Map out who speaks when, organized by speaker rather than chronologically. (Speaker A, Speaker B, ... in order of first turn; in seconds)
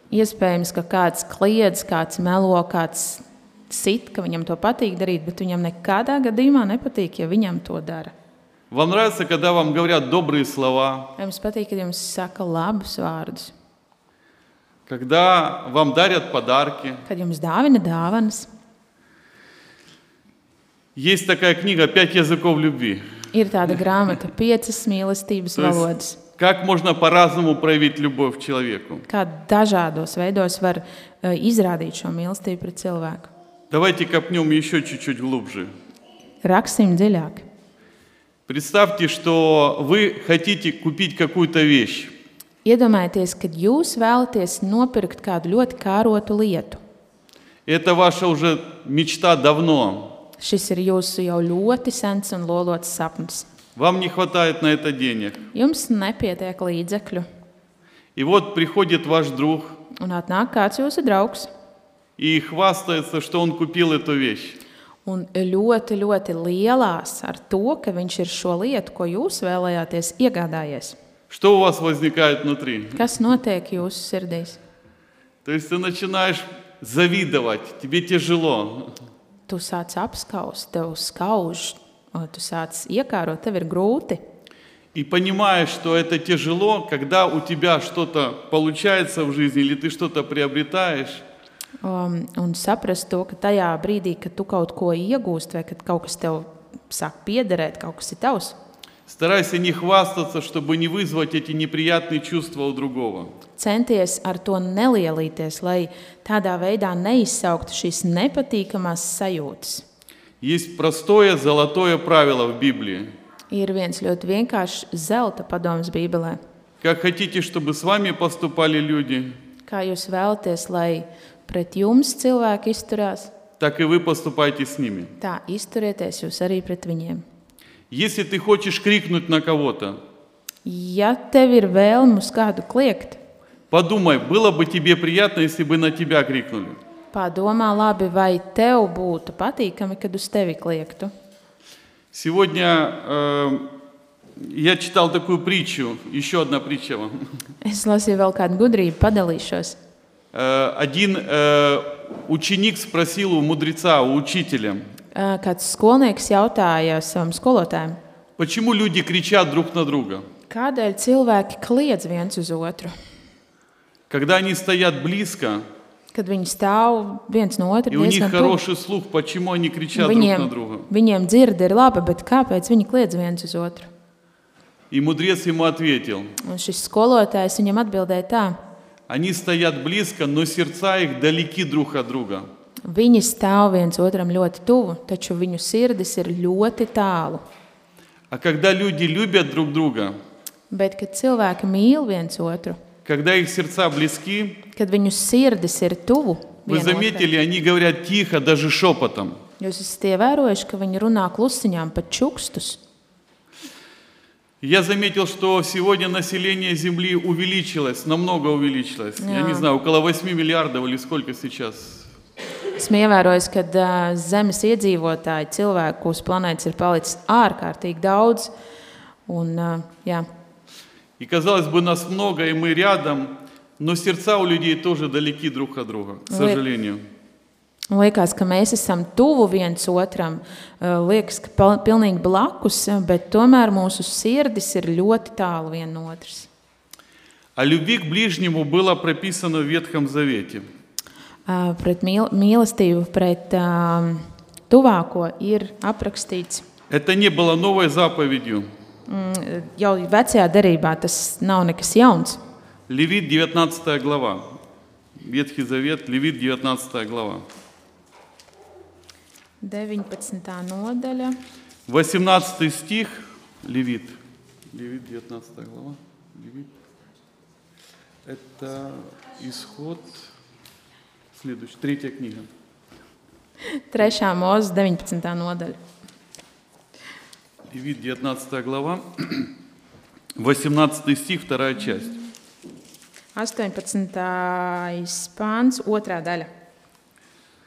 Speaker A: 0.1-8.1, 11.2-13.5, 17.1-18.5, 23.3-26.2, 29.1-33.3, 36.4-37.5, 42.6-46.8, 50.4-53.5, 55.5-57.2, 59.9-61.5, 65.0-71.0, 72.9-74.6, 79.5-84.2, 91.8-98.5, 103.6-109.8, 113.5-116.4, 119.6-123.3, 125.2-127.2, 130.6-133.2, 137.1-141.1, 147.6-149.8, 155.1-158.0, 160.5-162.9, 166.1-168.6, 169.9-173.9, 176.4-178.6, 182.8-187.4, 190.7-192.8, 194.7-197.3, 199.6-202.8, 209.2-209.7, 212.7-218.5, 219.2-220.2, 226.3-226.6, 227.9-236.5, 241.4-246.7, 249.1-252.4, 259.6-261.4, 273.6-275.8, 283.3-286.5
Speaker B: 8.7-11.1, 14.9-17.0, 20.9-23.2, 25.6-29.1, 33.7-35.7, 38.5-42.1, 47.6-50.2, 53.8-55.5, 58.1-59.8, 62.2-64.6, 71.3-73.1, 75.4-78.9, 84.9-91.2, 99.1-103.3, 110.4-113.1, 116.8-119.3, 123.6-125.1, 127.9-130.0, 133.7-136.8, 142.1-143.7, 144.4-147.3, 150.3-154.9, 158.4-160.2, 164.1-165.7, 167.9-170.9, 174.9-176.3, 179.1-182.5, 188.3-190.2, 193.0-194.6, 196.7-199.4, 204.6-212.1, 221.2-227.0, 237.6-240.6, 246.9-248.7, 252.9-254.6, 255.2-257.4, 261.9-264.2, 264.7-266.7, 268.2-270.3, 271.3-272.5, 277.7-279.5, 280.4-282.2